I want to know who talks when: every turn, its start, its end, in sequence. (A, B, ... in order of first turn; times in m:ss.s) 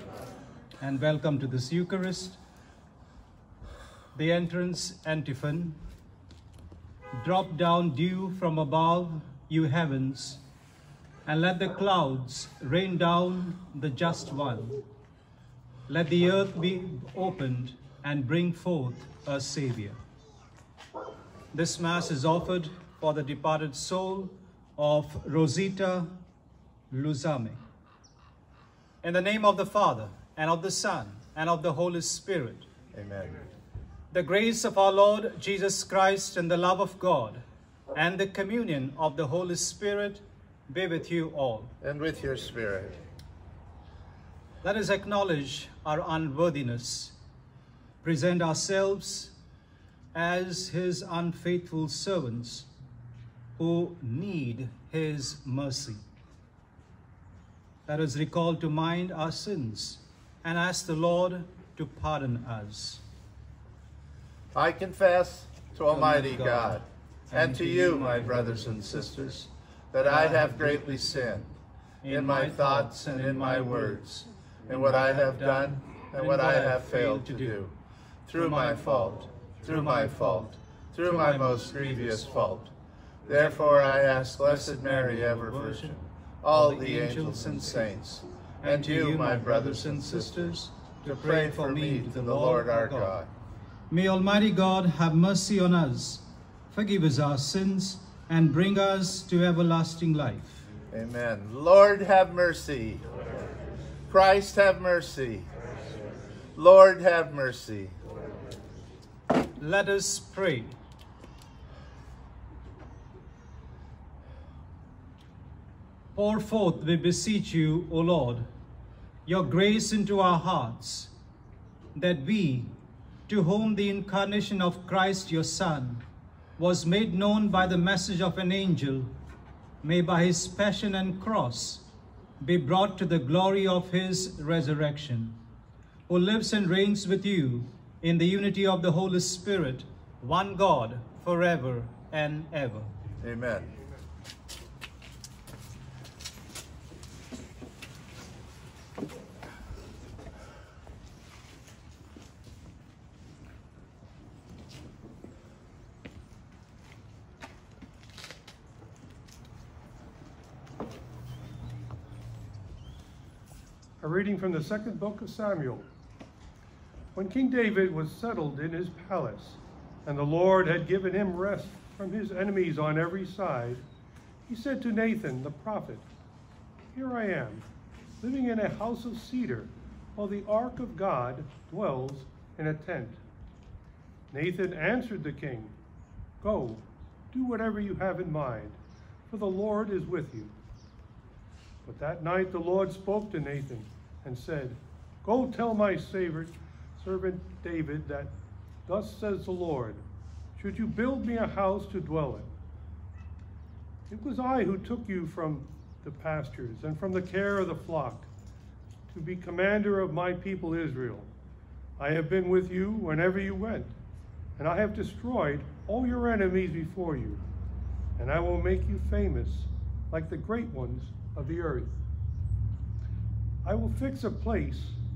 0:00.8-0:02.4 A
0:04.1-0:05.8 A
0:07.1-0:10.4 A
0:11.3-0:14.8 A
0:15.9-0:20.0 A
0:21.5-0:26.1 A
0:26.9-0:27.6 A
0:29.0-0:32.7 A
0:32.9-0:33.4 B
0:34.1-0:41.7 A
0:41.8-0:43.0 B
0:44.6-0:47.2 A
0:48.0-0:49.4 A
0:50.1-0:52.7 A
0:53.6-0:56.0 A
0:57.9-1:03.0 A
1:04.5-1:09.4 B
1:05.9-1:11.4 A
1:09.9-1:11.5 B
1:12.0-1:17.6 A
1:12.1-1:14.0 B
1:14.7-1:17.7 B
1:18.3-1:22.7 B
1:18.4-1:22.6 A
1:23.3-1:33.3 B
1:23.3-1:26.0 A
1:26.5-1:33.2 A
1:33.9-1:40.7 A
1:40.9-1:43.0 B
1:44.1-1:45.5 B
1:46.6-1:48.0 B
1:49.6-1:50.8 A
1:56.2-1:58.5 A
1:59.2-2:01.1 A
2:02.0-2:02.7 A
2:03.3-2:06.0 A
2:06.6-2:09.1 A
2:09.8-2:15.4 A
2:16.1-2:22.9 A
2:23.2-2:23.7 B
2:44.0-2:45.9 C
2:47.2-2:53.8 C
2:54.5-2:56.1 C
2:57.0-2:57.7 C
2:58.2-3:03.2 C
3:04.3-3:05.7 C
3:06.4-3:10.5 C
3:11.8-3:18.3 C
3:18.9-3:20.0 C
3:20.6-3:22.5 C
3:24.1-3:28.3 C
3:29.1-3:31.3 C
3:32.0-3:33.9 C
3:34.6-3:37.4 C
3:38.2-3:42.0 C
3:43.6-3:45.0 C